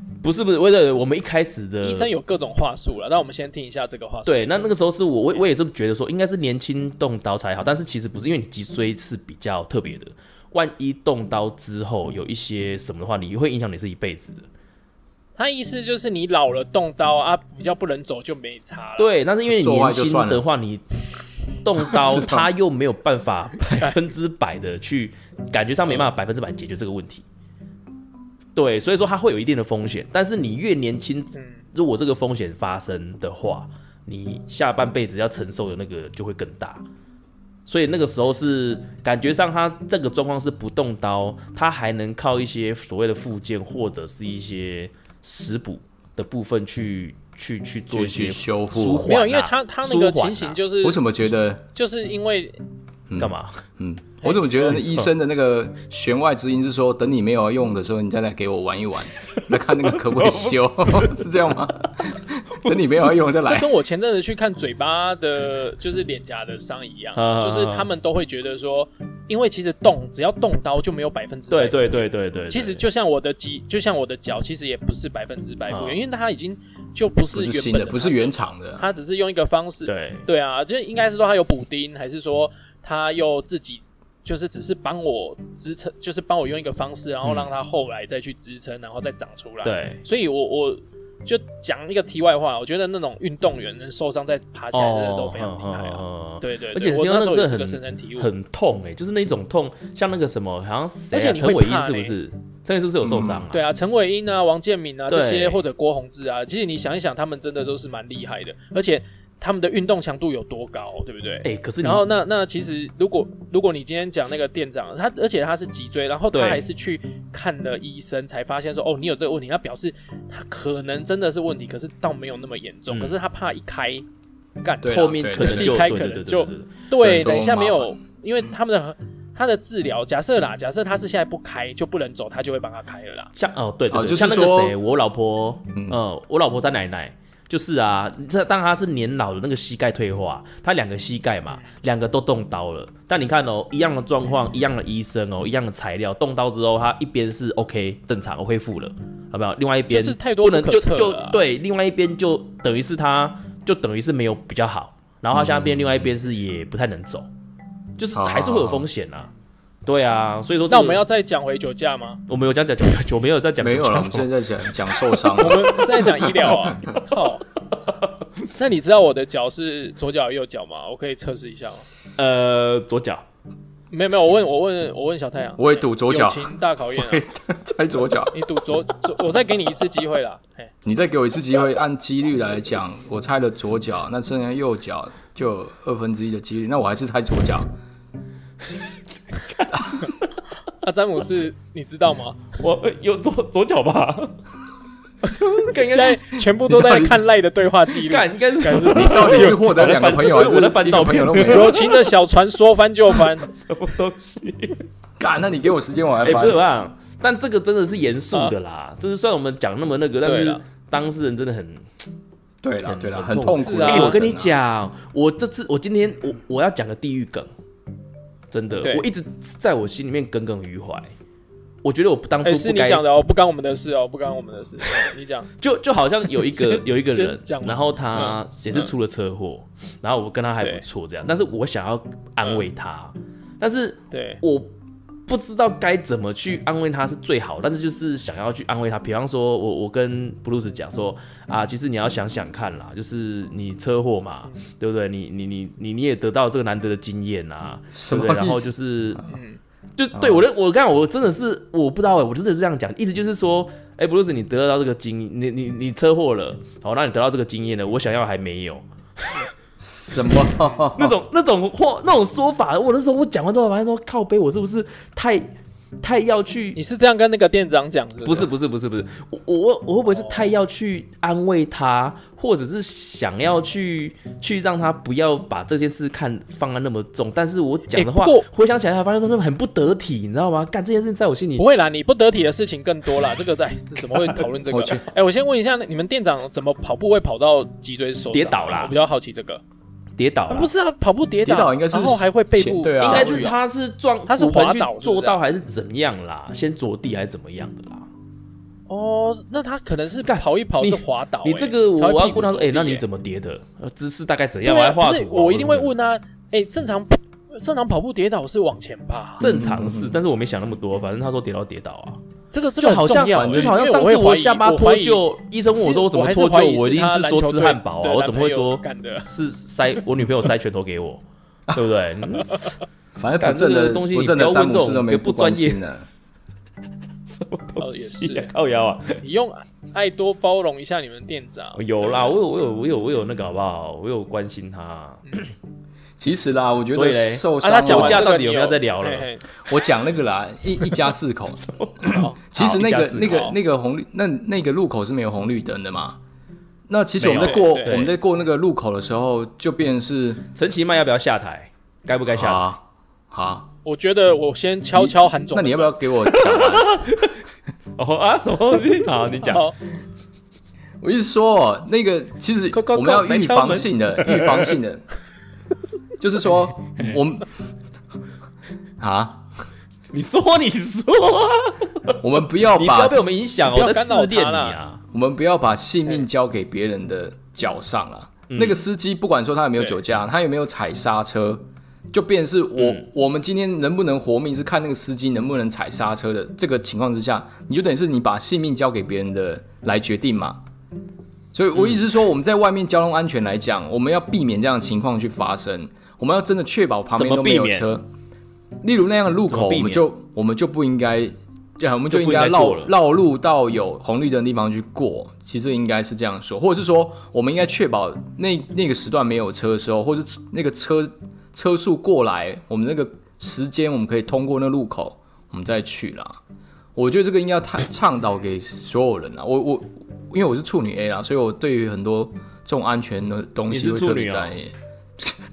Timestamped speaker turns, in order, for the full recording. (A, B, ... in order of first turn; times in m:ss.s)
0:00.2-0:02.1 A
0:01.8-0:04.7 B
0:04.3-0:14.5 A
0:15.4-0:19.1 B
0:19.0-0:20.8 A
0:19.5-0:20.4 C
0:21.6-0:27.2 A
0:21.9-0:22.5 C
0:28.6-0:36.8 A
0:31.4-0:31.6 B
0:37.7-0:50.6 A
0:47.9-0:49.1 C
0:49.1-0:51.1 B
0:50.8-0:51.6 C
0:51.7-0:52.6 B
0:53.1-1:03.7 C
0:53.2-0:53.6 A
0:54.2-0:54.8 B
0:54.7-0:55.1 A
0:59.4-1:01.2 A
1:02.6-1:03.1 A
1:03.4-1:38.3 B
1:07.2-1:07.9 A
1:11.5-1:12.8 A
1:15.7-1:16.0 A
1:17.3-1:18.9 C
1:19.9-1:20.3 A
1:29.6-1:30.0 A
1:34.7-1:43.6 A
1:41.1-1:42.1 B
1:43.0-1:43.5 C
1:43.5-2:04.1 B
1:45.1-1:45.6 A
1:51.4-1:52.1 A
1:56.3-1:56.7 A
2:02.9-2:03.2 A
2:04.6-2:13.3 B
2:04.8-2:05.8 C
2:04.8-2:06.7 A
2:07.0-2:08.0 C
2:13.3-2:37.3 A
2:13.9-2:14.8 C
2:21.5-2:21.8 B
2:29.9-2:31.4 B
2:35.3-2:36.2 C
2:38.0-2:39.3 A
2:38.1-2:38.9 C
2:39.8-2:41.0 A
2:40.7-2:42.2 B
2:42.3-2:44.3 A
2:43.6-2:46.5 C
2:45.3-2:47.4 B
2:48.6-2:51.9 B
2:52.2-2:53.2 A
2:53.9-2:57.2 B
2:55.6-2:58.3 C
2:58.3-3:00.7 B
3:00.8-3:07.7 C
3:09.3-3:10.3 A
3:10.8-3:12.5 B
3:12.6-3:14.4 A
3:15.4-3:16.4 A
3:15.9-3:19.6 B
3:16.7-3:17.2 C
3:18.0-3:22.1 A
3:18.9-3:21.8 C
3:21.4-3:23.5 B
3:23.1-3:24.8 A
3:25.2-3:26.6 C
3:26.2-3:31.9 A
3:30.2-3:30.6 B
3:32.6-3:34.5 C
3:32.8-3:37.5 A
3:33.5-3:34.2 B
3:38.5-3:41.1 A
3:38.8-3:39.1 B
3:41.8-3:43.0 A
3:42.4-3:45.5 B
3:45.6-3:54.7 A
3:46.4-3:48.9 B
3:50.6-3:50.8 B
3:54.1-3:54.4 B
3:55.3-4:09.2 A
4:07.9-4:08.7 C
4:09.3-4:09.6 B
4:10.0-4:19.5 A
4:10.2-4:10.4 C
4:19.8-4:21.2 C
4:20.2-4:26.8 A
4:26.8-4:28.5 B
4:28.2-4:41.7 A
4:30.1-4:30.5 B
4:37.9-4:38.5 B
4:41.6-4:49.6 B
4:44.7-4:45.0 C
4:48.3-4:49.0 A
4:50.2-4:50.7 A
4:50.5-4:53.6 B
4:51.4-4:53.5 C
4:53.0-4:58.1 A
4:54.3-4:55.4 B
4:58.9-5:03.0 B
5:00.2-5:05.9 A
5:04.6-5:09.4 B
5:09.4-5:10.2 C
5:09.4-5:12.2 A
5:12.5-5:15.2 B
5:12.8-5:22.8 A
5:13.3-5:13.8 C
5:15.8-5:19.3 B
5:23.2-5:26.1 C
5:23.4-5:25.8 A
5:27.3-5:29.2 A
5:27.8-5:28.5 B
5:29.2-5:32.4 B
5:31.8-5:35.5 A
5:36.2-5:38.3 C
5:36.9-5:39.3 A
5:37.6-5:39.4 B
5:39.7-5:46.2 C
5:41.6-5:43.6 A
5:46.9-5:50.4 C
5:47.2-5:48.2 A
5:47.4-5:48.0 B
5:50.5-5:52.7 A
5:52.3-5:53.7 C
5:53.8-5:55.9 B
5:54.9-5:57.0 C
5:56.3-5:57.4 A
5:58.0-5:59.7 A
5:59.4-5:59.8 B
6:01.0-6:05.0 C
6:02.7-6:04.7 A
6:06.2-6:07.5 C
6:09.0-6:09.5 C
6:10.1-6:12.2 A
6:12.2-6:13.3 C
6:12.7-6:15.0 A
6:13.7-6:14.8 B
6:15.1-6:30.6 C
6:18.5-6:18.8 A
6:22.8-6:23.1 A
6:31.5-6:38.1 C
6:37.2-6:37.9 A
6:38.8-6:56.4 C
6:39.5-6:40.1 A
6:42.1-6:42.9 A
6:57.0-7:05.4 C
7:03.7-7:04.6 A